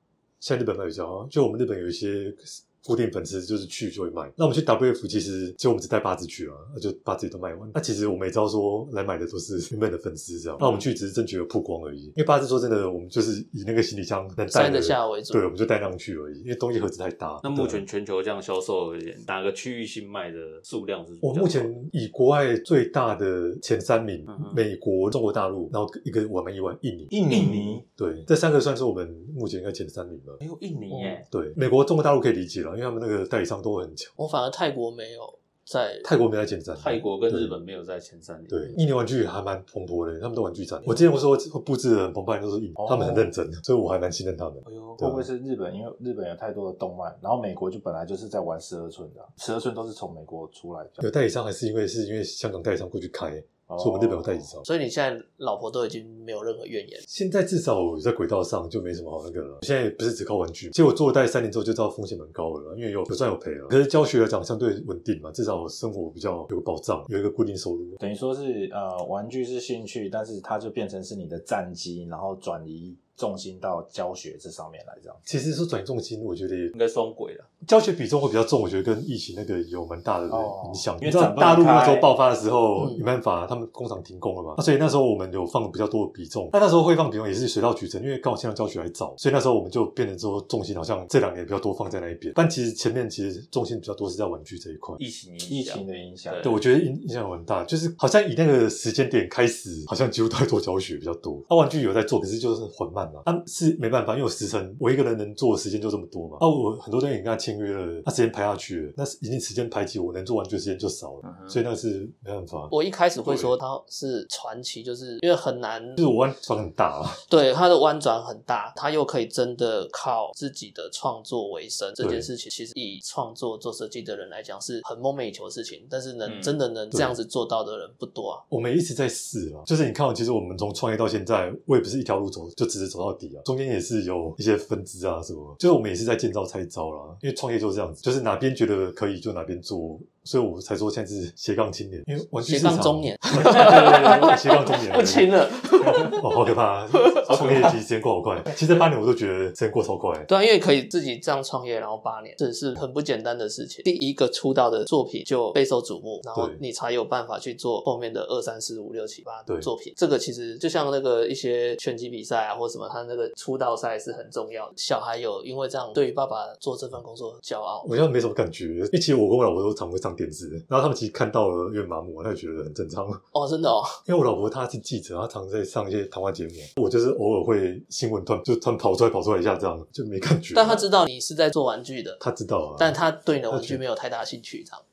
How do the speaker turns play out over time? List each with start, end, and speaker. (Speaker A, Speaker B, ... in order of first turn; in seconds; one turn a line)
Speaker A: 0.4-17.8
Speaker B: 10.6-10.9
Speaker C: 14.5-15.4
Speaker B: 17.4-21.7
Speaker A: 21.2-30.4
Speaker B: 24.3-24.6
Speaker D: 27.1-27.8
Speaker B: 30.4-31.3
Speaker C: 30.9-31.2
Speaker A: 31.3-34.1
Speaker C: 34.2-36.1
Speaker A: 36.0-37.5
Speaker B: 36.8-38.8
Speaker A: 38.5-45.3
Speaker D: 42.8-43.3
Speaker B: 44.7-45.0
Speaker D: 45.0-51.0
Speaker A: 51.0-54.6
Speaker D: 53.7-54.5
Speaker C: 54.6-57.0
Speaker A: 57.1-68.0
Speaker D: 68.0-75.2
Speaker A: 75.2-76.7
Speaker B: 76.7-77.5
Speaker A: 77.6-95.0
Speaker D: 80.3-82.1
Speaker C: 82.8-83.0
Speaker B: 95.0-96.6
Speaker D: 95.4-96.5
Speaker A: 96.4-113.6
Speaker B: 111.2-111.6
Speaker C: 112.7-116.0
Speaker A: 116.0-117.2
Speaker C: 117.3-128.4
Speaker A: 122.0-122.3
Speaker B: 126.2-126.5
Speaker A: 128.5-145.4
Speaker C: 142.4-146.2
Speaker A: 145.9-150.3
Speaker C: 146.9-147.7
Speaker B: 147.3-147.6
Speaker C: 150.3-167.9
Speaker A: 167.8-173.2
Speaker C: 173.3-174.0
Speaker A: 174.1-180.8
Speaker C: 180.5-182.2
Speaker A: 182.2-183.0
Speaker C: 182.8-184.8
Speaker A: 183.5-183.8